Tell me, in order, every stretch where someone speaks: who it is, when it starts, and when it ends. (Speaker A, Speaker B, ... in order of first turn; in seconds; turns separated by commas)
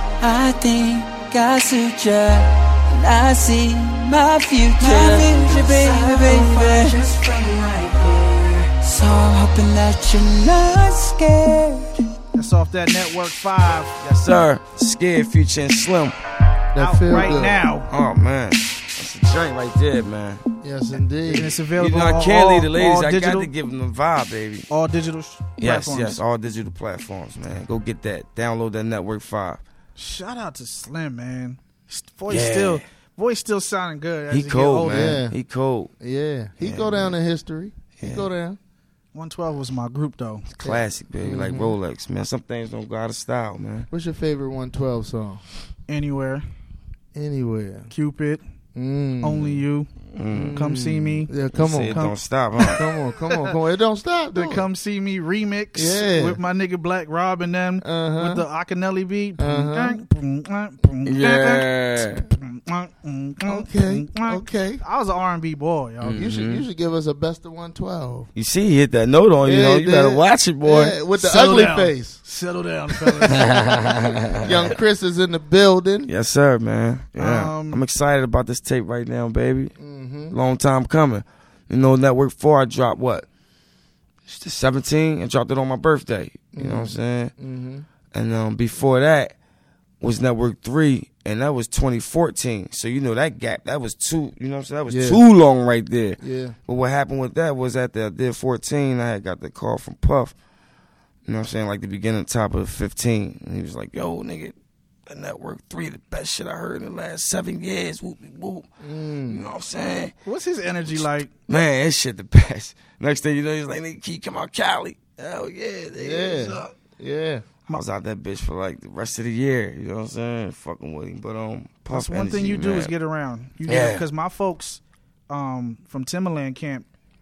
Speaker A: 0.2-12.0, Speaker B: 12.3-14.1, Speaker C: 14.0-16.1, Speaker D: 16.7-17.6, Speaker B: 16.8-17.9, Speaker C: 17.9-20.4, Speaker D: 20.6-21.6, Speaker B: 21.3-23.5, Speaker C: 21.7-24.6, Speaker B: 24.7-26.2, Speaker C: 25.6-29.6, Speaker B: 29.9-35.2, Speaker C: 32.3-32.8, Speaker C: 34.3-35.9, Speaker D: 34.9-35.4, Speaker D: 36.0-38.6, Speaker C: 36.6-37.1, Speaker C: 38.0-38.3, Speaker B: 39.1-40.5, Speaker C: 40.6-43.9, Speaker D: 40.6-41.8, Speaker D: 43.9-45.4, Speaker B: 45.9-46.4, Speaker D: 47.1-47.9, Speaker B: 47.9-48.4, Speaker D: 48.7-49.6, Speaker B: 49.2-49.9, Speaker C: 50.1-50.6, Speaker D: 50.3-54.6, Speaker B: 50.5-51.4, Speaker C: 51.5-52.8, Speaker B: 51.9-52.1, Speaker B: 54.3-66.3, Speaker D: 55.7-56.4, Speaker D: 57.8-58.4, Speaker D: 59.4-60.0, Speaker C: 61.0-62.2, Speaker D: 63.4-64.8, Speaker D: 66.0-68.3, Speaker C: 66.0-66.6, Speaker C: 68.3-71.0, Speaker D: 69.4-72.2, Speaker B: 71.2-73.5, Speaker C: 73.3-74.7, Speaker D: 74.4-76.1, Speaker C: 76.0-79.7, Speaker B: 77.2-77.8, Speaker D: 79.8-80.3, Speaker C: 80.3-83.2, Speaker C: 84.2-87.3, Speaker D: 86.5-87.9, Speaker C: 88.1-89.3, Speaker C: 90.0-100.3, Speaker D: 94.9-95.2, Speaker D: 96.2-96.5, Speaker C: 101.2-104.5, Speaker C: 105.1-108.7, Speaker D: 108.8-109.4, Speaker C: 109.2-110.1, Speaker B: 110.2-111.3, Speaker C: 110.9-116.7, Speaker D: 116.0-117.4, Speaker C: 117.7-122.9, Speaker B: 121.9-126.8, Speaker C: 123.7-124.0